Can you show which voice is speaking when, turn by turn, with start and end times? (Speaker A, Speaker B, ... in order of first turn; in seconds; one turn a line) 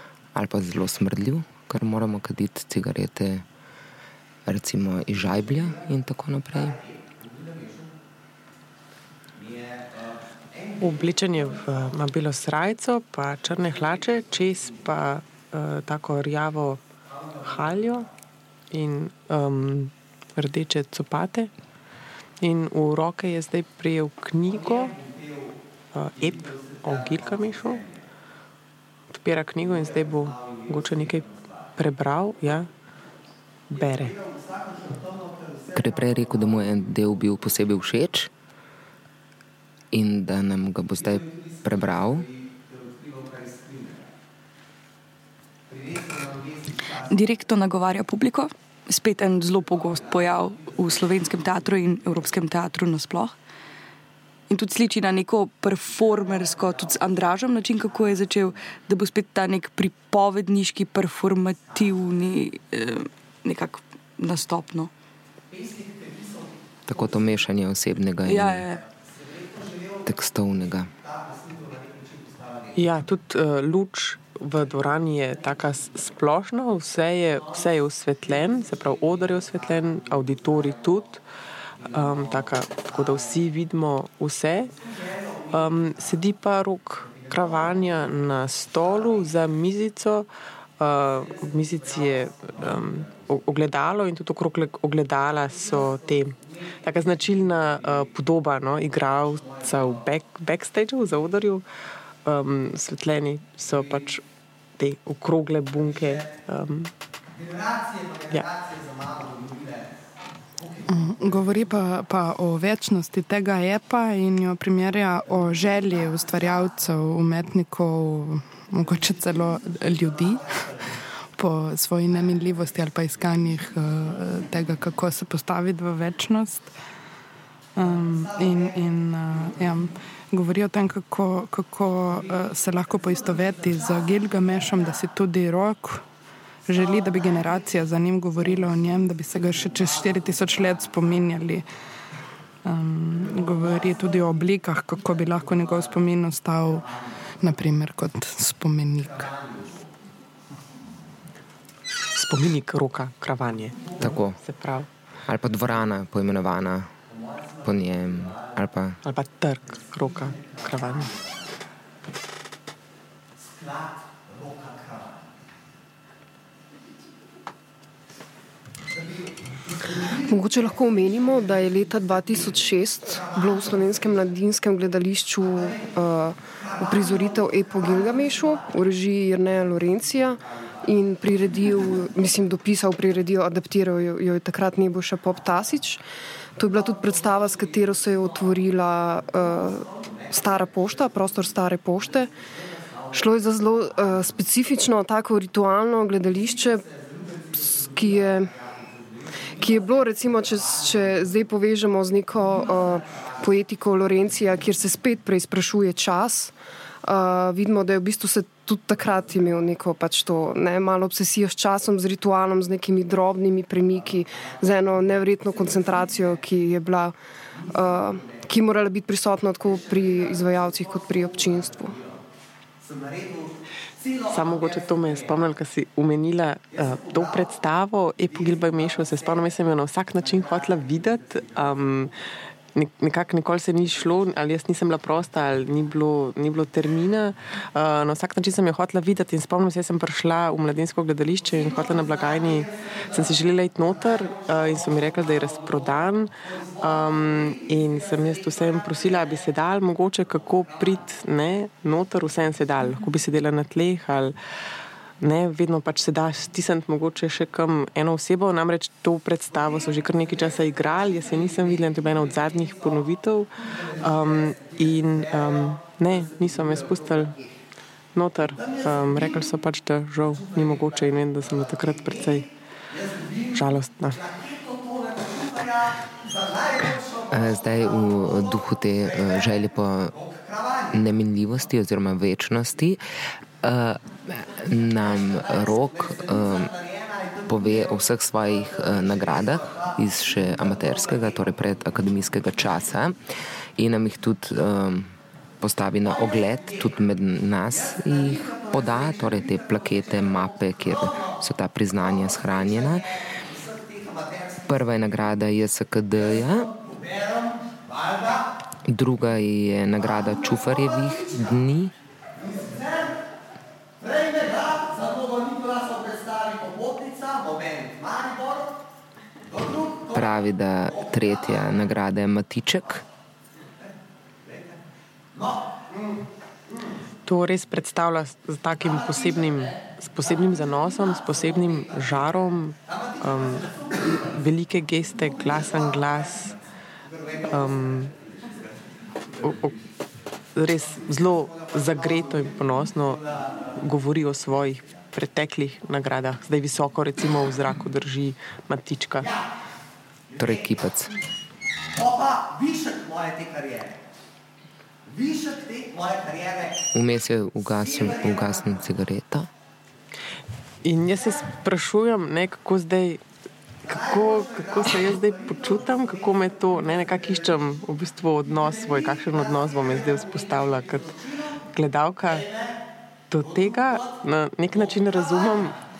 Speaker A: 0.3-3.5
Speaker A: 4.5-6.8
Speaker B: 10.8-16.8
Speaker B: 17.4-18.1
Speaker B: 18.7-21.5
Speaker B: 22.4-25.0
Speaker B: 25.9-27.9
Speaker B: 29.1-32.7
Speaker B: 33.7-34.2
Speaker A: 35.7-38.3
Speaker A: 39.9-42.3
Speaker C: 47.1-53.4
Speaker C: 54.5-64.9
Speaker A: 66.9-68.7
Speaker C: 68.2-68.8
Speaker A: 70.0-70.9
Speaker B: 72.8-81.2
Speaker B: 81.9-84.7
Speaker B: 85.5-90.3
Speaker B: 90.8-101.6
Speaker B: 102.2-104.2
Speaker B: 104.8-106.9
Speaker D: 110.9-120.5
Speaker D: 121.3-126.7
Speaker D: 127.8-136.1
Speaker D: 136.7-141.7
Speaker D: 142.7-149.3
Speaker B: 152.1-154.9
Speaker A: 154.0-154.4
Speaker A: 155.3-156.9
Speaker A: 157.6-159.0
Speaker B: 159.1-161.1
Speaker E: 170.3-186.0
Speaker E: 186.6-192.3
Speaker E: 193.1-196.9
Speaker E: 197.5-198.5
Speaker E: 199.6-217.2
Speaker E: 217.7-222.0
Speaker B: 224.3-232.1
Speaker B: 232.8-254.4
Speaker B: 255.2-263.5
Speaker B: 264.0-267.4
Speaker B: 268.1-272.5
Speaker B: 273.5-274.2
Speaker A: 277.3-280.1
Speaker A: 280.9-283.0
Speaker A: 283.6-286.7
Speaker A: 287.5-293.2
Speaker A: 293.8-303.1
Speaker A: 304.7-306.7
Speaker A: 308.9-311.9
Speaker A: 320.1-323.0
Speaker B: 327.3-336.6
Speaker B: 337.5-338.1
Speaker B: 339.4-339.8
Speaker B: 340.6-343.2
Speaker B: 343.8-349.3
Speaker A: 350.4-351.1
Speaker A: 356.9-359.5
Speaker B: 360.8-363.2
Speaker B: 363.9-371.1
Speaker B: 371.7-372.5
Speaker B: 373.3-375.8